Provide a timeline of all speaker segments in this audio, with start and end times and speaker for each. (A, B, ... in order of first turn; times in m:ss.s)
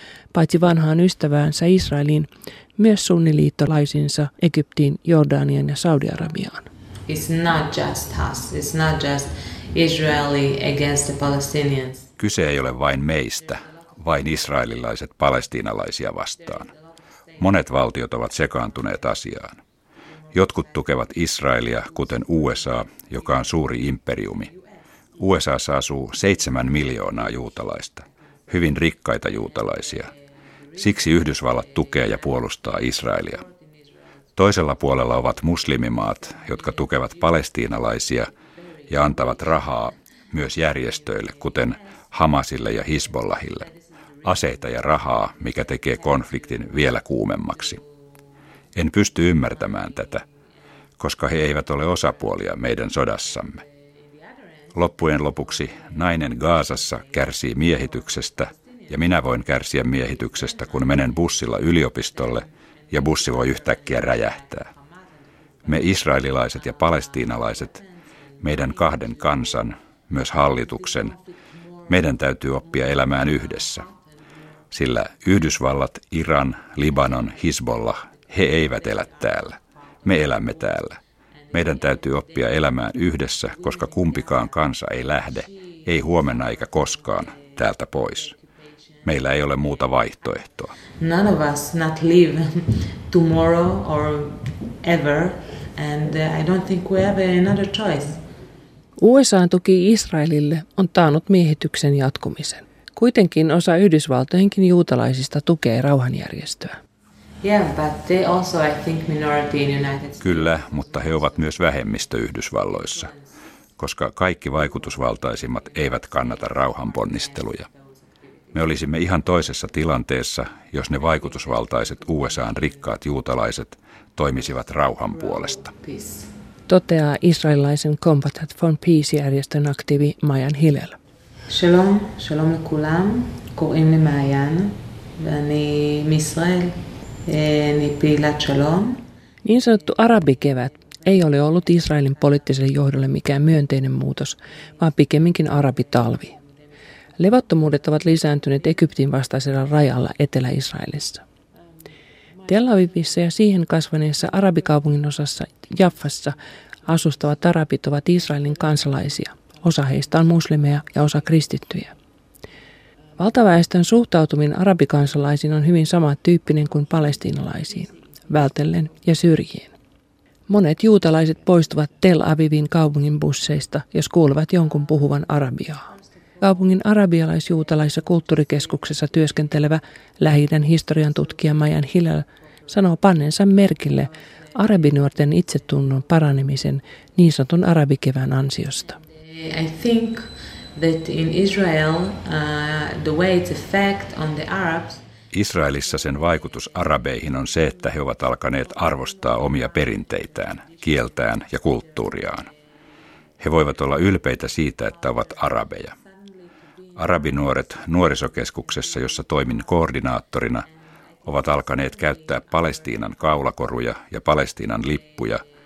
0:00.3-0:06.7 A
0:07.1-0:12.1 B
0:12.2-0:16.7 C
0:17.4-0:19.6 C
0:20.3-0:24.5 C
0:25.2-0:30.1 C
0:30.8-0:33.4 C
0:34.4-0:38.3 C
0:38.9-0:43.7 C
0:44.2-0:47.8 C
0:48.8-0:50.2 C
0:51.0-0:53.6 C
0:54.7-1:04.7 C
1:05.6-1:07.8 C
1:08.4-1:11.2 C
1:11.9-1:13.9 C
1:14.7-1:21.0 C
1:21.5-1:28.4 C
1:29.0-1:30.7 C
1:31.0-1:38.2 B
1:39.0-1:46.8 A
1:47.4-1:50.3 B
1:50.2-1:53.1 C
1:53.8-1:57.7 C
1:58.5-2:05.7 C
2:05.8-2:06.3 B
2:06.7-2:11.0 A
2:11.5-2:19.0 B
2:19.4-2:26.4 A
2:27.2-2:31.2 A
2:32.5-2:41.9 A
2:43.2-2:49.7 A
2:50.5-2:55.9 A
2:56.4-3:09.0 A
3:09.4-3:15.0 B
3:15.3-3:22.5 C
3:23.4-3:26.0 C
3:27.0-3:30.7 C
3:31.2-3:35.4 C